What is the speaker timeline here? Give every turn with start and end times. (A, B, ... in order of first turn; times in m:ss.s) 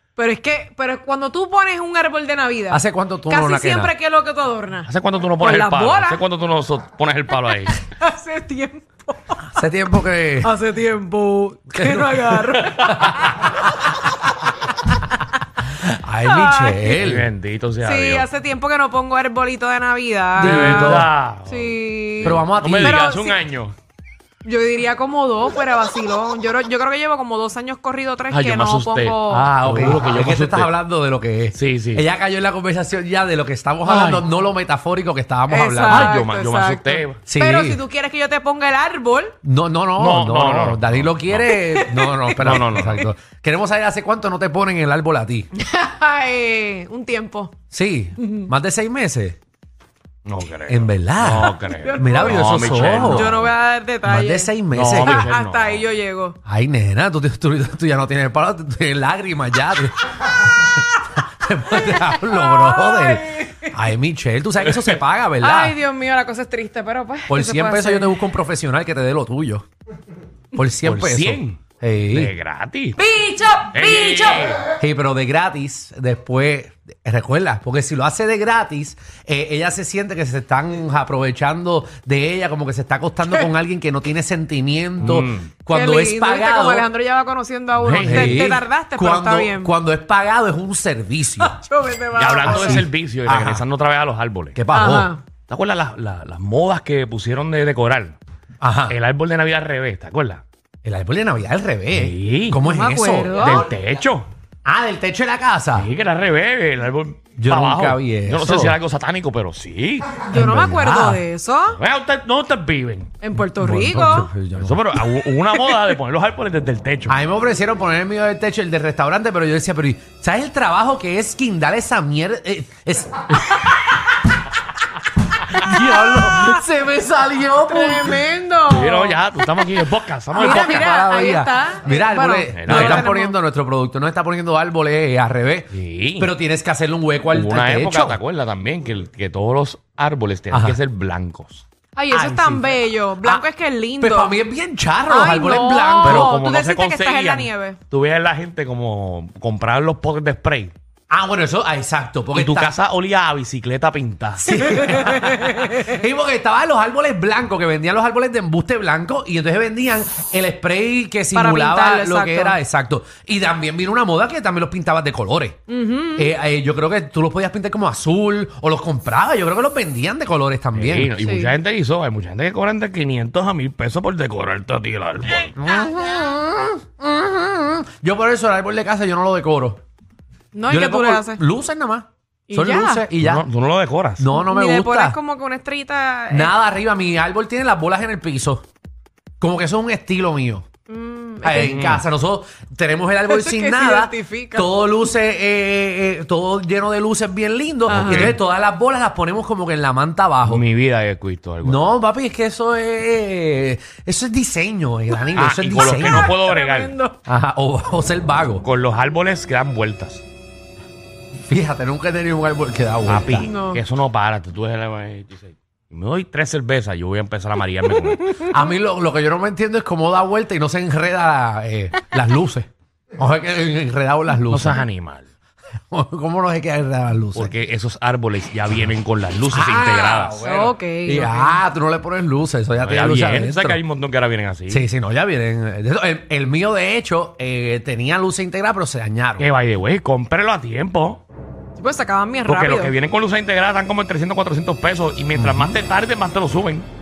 0:00.2-0:06.2 A
0:02.7-0:03.9 B
0:04.9-0:07.8 C
0:07.8-0:09.5 A
0:09.5-0:10.5 B
0:10.4-0:14.0 A
0:11.7-0:13.7 B
0:12.6-0:13.1 C
0:14.9-0:15.2 A
0:15.7-0:17.3 B
0:16.2-0:17.0 A
0:16.9-0:18.3 C
0:17.8-0:23.4 A
0:20.3-0:21.1 B
0:20.4-0:23.8 C
0:22.2-0:23.0 B
0:24.4-0:29.5 A
0:28.3-0:30.7 C
0:29.4-0:36.2 B
0:31.5-0:32.0 C
0:33.8-0:34.2 C
0:35.5-0:39.3 A
0:35.9-0:37.2 C
0:37.2-0:37.8 B
0:39.4-0:45.5 B
0:40.0-0:41.6 C
0:41.7-0:42.4 A
0:42.4-0:43.0 C
0:45.5-0:47.5 A
0:47.7-0:49.4 B
0:48.2-0:48.5 A
0:50.2-0:53.5 C
0:50.7-0:53.5 B
0:51.7-0:56.4 A
0:54.0-0:55.3 B
0:54.7-0:55.8 C
0:56.4-0:59.9 B
1:00.5-1:05.8 B
1:01.8-1:03.8 A
1:04.6-1:05.0 C
1:05.4-1:08.2 A
1:07.3-1:09.6 B
1:10.5-1:12.3 B
1:10.8-1:13.0 C
1:13.0-1:14.6 A
1:13.7-1:14.6 C
1:14.7-1:26.9 B
1:25.0-1:25.5 C
1:25.7-1:29.7 A
1:27.8-1:28.6 C
1:27.8-1:31.6 B
1:31.4-1:32.8 A
1:32.2-1:34.6 C
1:32.4-1:33.6 B
1:34.5-1:35.1 B
1:34.7-1:35.2 A
1:35.5-1:38.2 C
1:38.6-1:39.0 B
1:38.9-1:40.4 C
1:40.8-1:43.6 B
1:41.9-1:42.6 C
1:42.6-1:43.7 A
1:43.4-1:44.3 C
1:44.6-1:45.9 B
1:45.7-1:50.2 C
1:47.4-1:48.8 B
1:50.2-1:51.8 A
1:50.3-1:51.2 B
1:51.7-1:53.1 C
1:53.2-1:54.3 A
1:53.4-1:54.8 B
1:54.5-1:57.2 C
1:57.1-2:03.8 B
2:05.4-2:08.2 B
2:07.7-2:09.2 A
2:08.7-2:10.9 C
2:10.3-2:18.2 B
2:10.3-2:13.4 A
2:12.5-2:13.1 C
2:15.7-2:16.3 C
2:17.3-2:21.6 C
2:20.5-2:20.8 B
2:21.9-2:24.4 A
2:22.1-2:23.5 B
2:24.0-2:26.3 B
2:25.1-2:27.8 A
2:26.0-2:30.7 C
2:31.1-2:32.8 B
2:32.3-2:34.6 C
2:34.4-2:45.6 B
2:34.9-2:35.8 A
2:41.3-2:42.6 A
2:45.7-2:46.3 A
2:46.1-2:51.1 B
2:50.7-2:55.5 C
2:51.2-2:51.5 A
2:55.5-2:59.8 B
3:00.5-3:01.4 A
3:00.7-3:03.4 B
3:02.5-3:03.0 A
3:03.2-3:04.3 C
3:04.2-3:05.2 B
3:04.3-3:06.5 A
3:06.3-3:08.6 B
3:09.4-3:10.6 B
3:10.9-3:11.8 A
3:11.4-3:20.6 B
3:11.6-3:12.0 C
3:13.3-3:14.9 A
3:17.9-3:18.4 C
3:17.9-3:18.3 A
3:20.4-3:21.8 C
3:21.6-3:26.4 B
3:25.3-3:26.9 C
3:26.4-3:27.2 A
3:27.2-3:28.6 B
3:28.6-3:30.2 C
3:31.5-3:33.5 B
3:33.0-3:38.5 C
3:33.4-3:33.8 A
3:38.4-3:44.8 B
3:44.5-3:45.3 C
3:45.9-3:47.5 B
3:47.3-3:50.4 C
3:49.5-3:53.8 B
3:50.4-3:51.6 A
3:52.8-3:54.9 C
3:54.7-3:59.5 B
3:59.4-4:01.2 C
4:01.8-4:02.9 A
4:02.5-4:06.9 C
4:05.3-4:05.8 B